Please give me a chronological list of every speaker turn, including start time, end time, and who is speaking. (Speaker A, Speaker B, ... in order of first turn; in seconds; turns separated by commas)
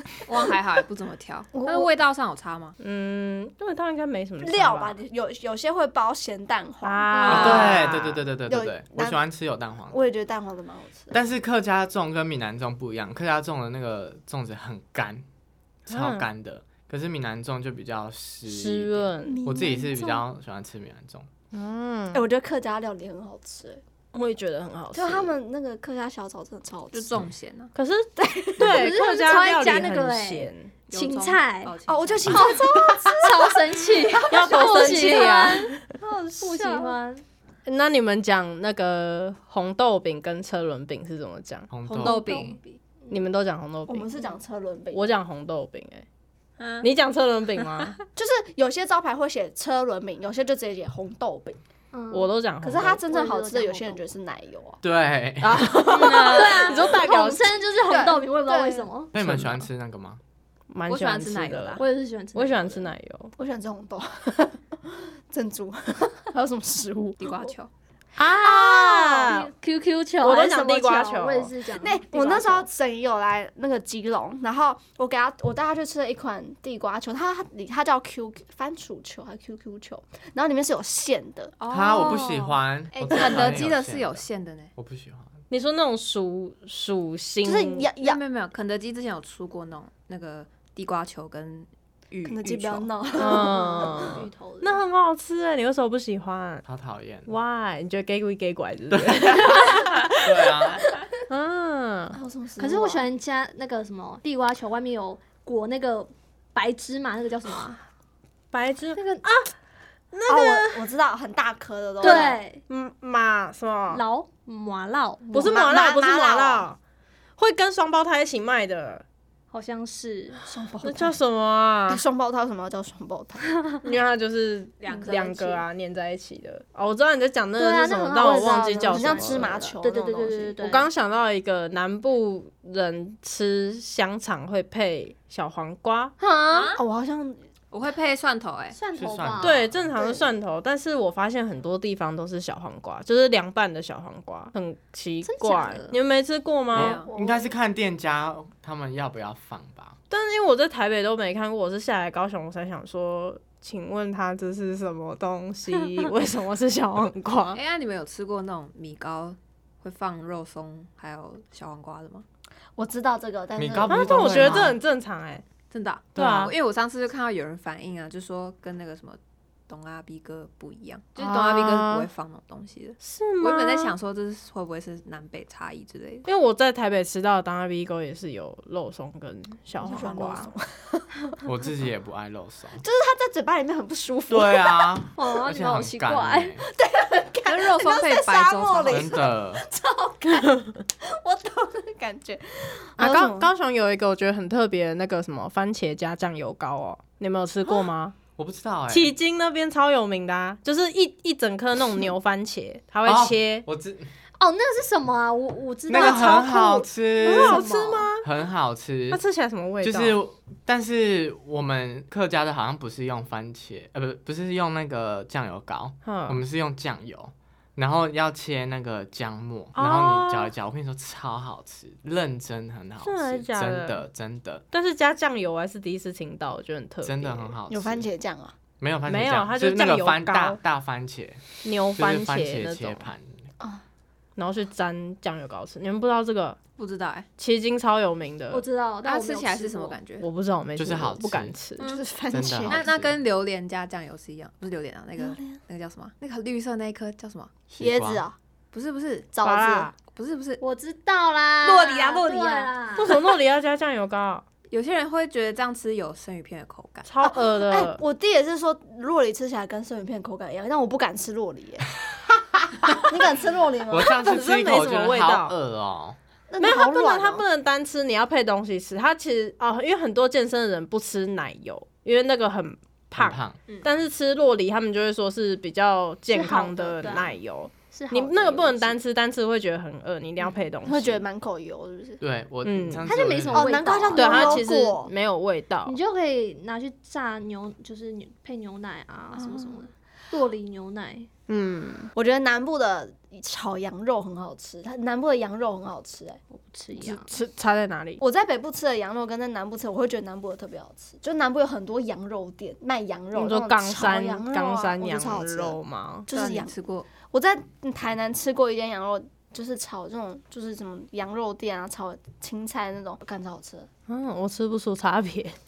Speaker A: 0.2-2.7, Speaker B: 1.5-1.9, Speaker C: 2.8-5.0, Speaker B: 4.4-9.2, Speaker C: 6.8-8.2, Speaker A: 7.2-7.6, Speaker D: 7.3-10.0, Speaker B: 9.9-11.2, Speaker D: 11.1-15.2, Speaker D: 15.8-21.3, Speaker C: 15.9-16.3, Speaker C: 18.5-19.4, Speaker B: 19.3-20.2, Speaker C: 21.5-22.2, Speaker B: 22.1-23.8, Speaker C: 24.1-25.3, Speaker B: 24.9-27.2, Speaker A: 26.9-27.7, Speaker C: 27.7-30.7, Speaker B: 28.1-28.9, Speaker E: 28.7-31.7, Speaker A: 30.9-32.6, Speaker B: 31.9-35.3, Speaker E: 32.3-37.2, Speaker C: 34.3-35.8, Speaker A: 36.4-36.7, Speaker B: 36.4-36.9, Speaker C: 37.6-41.7, Speaker D: 41.7-42.3, Speaker A: 42.0-42.8, Speaker E: 42.0-43.2, Speaker C: 43.1-44.1, Speaker B: 43.9-45.1, Speaker C: 44.9-46.0, Speaker A: 46.6-46.9, Speaker C: 46.8-48.0, Speaker B: 48.1-51.6, Speaker E: 51.9-52.3, Speaker C: 52.1-53.0, Speaker B: 52.6-54.8, Speaker E: 53.1-54.0, Speaker D: 54.8-56.1, Speaker C: 55.4-57.6, Speaker E: 55.9-59.1, Speaker B: 57.8-58.9, Speaker D: 59.1-60.2, Speaker C: 59.1-59.6, Speaker C: 60.7-61.8, Speaker A: 60.9-61.8, Speaker E: 61.8-62.9, Speaker C: 62.3-63.3, Speaker B: 63.4-67.5, Speaker A: 67.2-67.7, Speaker C: 68.2-69.5, Speaker B: 68.4-69.2, Speaker E: 69.1-72.7, Speaker C: 70.2-71.5, Speaker B: 71.7-81.5, Speaker A: 81.6-84.7, Speaker D: 81.7-84.2, Speaker D: 84.8-85.3, Speaker C: 85.5-87.9, Speaker B: 87.4-88.2, Speaker A: 88.0-92.9, Speaker B: 92.2-94.2, Speaker C: 93.2-96.6, Speaker E: 93.3-94.8, Speaker D: 96.7-97.3, Speaker C: 97.3-100.2, Speaker D: 98.9-100.9, Speaker C: 101.3-102.2, Speaker B: 102.1-103.1, Speaker E: 102.6-107.8, Speaker C: 108.5-109.5, Speaker E: 108.9-109.2, Speaker C: 110.1-110.8, Speaker B: 110.3-112.4, Speaker E: 112.0-112.6, Speaker C: 112.0-114.0, Speaker E: 113.9-115.5, Speaker B: 115.3-116.7, Speaker C: 115.3-116.8, Speaker C: 117.4-119.0, Speaker E: 119.5-120.4, Speaker B: 120.4-121.2, Speaker C: 120.8-122.0, Speaker B: 121.9-123.6, Speaker C: 123.8-129.6, Speaker A: 124.8-125.4, Speaker B: 124.9-125.6, Speaker E: 127.6-130.9, Speaker B: 128.8-130.6, Speaker C: 130.6-136.1, Speaker E: 136.2-136.7, Speaker A: 136.5-136.8, Speaker B: 136.5-137.4, Speaker A: 137.7-138.8, Speaker E: 138.7-139.6, Speaker D: 138.9-139.9, Speaker C: 139.4-147.0, Speaker E: 145.2-145.9, Speaker A: 146.7-147.1, Speaker D: 146.7-150.0, Speaker B: 146.8-147.5, Speaker C: 150.1-157.6, Speaker A: 157.5-162.2, Speaker B: 162.8-164.7, Speaker D: 163.6-164.8, Speaker C: 163.9-165.4, Speaker A: 165.7-176.3, Speaker C: 166.1-166.5, Speaker D: 166.2-166.4, Speaker C: 171.2-172.1, Speaker C: 173.0-173.9, Speaker C: 176.2-180.5, Speaker B: 179.8-181.4, Speaker D: 181.4-182.8, Speaker B: 182.8-185.0, Speaker D: 184.3-186.6, Speaker E: 185.1-186.5, Speaker B: 186.6-193.5, Speaker A: 187.4-189.2, Speaker D: 188.9-189.6, Speaker C: 193.0-198.2, Speaker D: 198.4-199.1, Speaker C: 198.9-203.7, Speaker D: 203.0-204.1, Speaker E: 204.4-208.0, Speaker D: 205.9-207.6, Speaker C: 205.9-206.4, Speaker C: 207.2-208.2, Speaker D: 208.2-209.2, Speaker C: 209.1-210.2, Speaker D: 209.8-224.6, Speaker C: 216.0-216.4, Speaker C: 219.7-220.5, Speaker C: 223.0-224.0, Speaker C: 224.7-227.6, Speaker D: 227.0-228.1, Speaker B: 227.7-228.5, Speaker D: 228.8-233.2, Speaker C: 229.1-230.6, Speaker C: 231.6-233.1, Speaker C: 234.4-236.6, Speaker A: 236.8-237.3, Speaker C: 237.4-238.6, Speaker E: 238.5-240.0, Speaker A: 239.0-240.2, Speaker C: 240.2-241.8, Speaker D: 240.8-241.5, Speaker B: 241.8-242.9, Speaker D: 242.3-243.2, Speaker A: 242.7-247.7, Speaker B: 245.2-245.6, Speaker D: 247.8-248.2, Speaker B: 247.8-248.3, Speaker A: 248.7-249.3, Speaker B: 249.3-249.9, Speaker C: 249.4-249.9, Speaker A: 250.1-250.6, Speaker E: 250.6-253.2, Speaker A: 251.6-252.7, Speaker C: 253.0-254.4, Speaker A: 254.7-257.1, Speaker C: 257.0-258.0, Speaker B: 257.2-261.9, Speaker B: 262.9-264.2, Speaker D: 263.9-266.2, Speaker C: 264.2-265.5, Speaker B: 266.5-267.4, Speaker C: 266.6-281.2, Speaker D: 273.1-273.6, Speaker E: 276.3-277.3, Speaker E: 277.9-278.9, Speaker B: 280.8-282.2, Speaker D: 282.2-284.0, Speaker C: 282.6-283.1, Speaker E: 283.0-284.6, Speaker B: 283.5-285.1, Speaker C: 284.1-286.0, Speaker E: 285.8-291.3, Speaker B: 289.3-289.8, Speaker C: 291.5-292.1, Speaker B: 292.1-296.4, Speaker E: 296.5-297.3, Speaker C: 296.9-298.2, Speaker B: 298.2-313.9, Speaker C: 303.3-306.3, Speaker A: 306.3-307.1, Speaker C: 314.1-315.6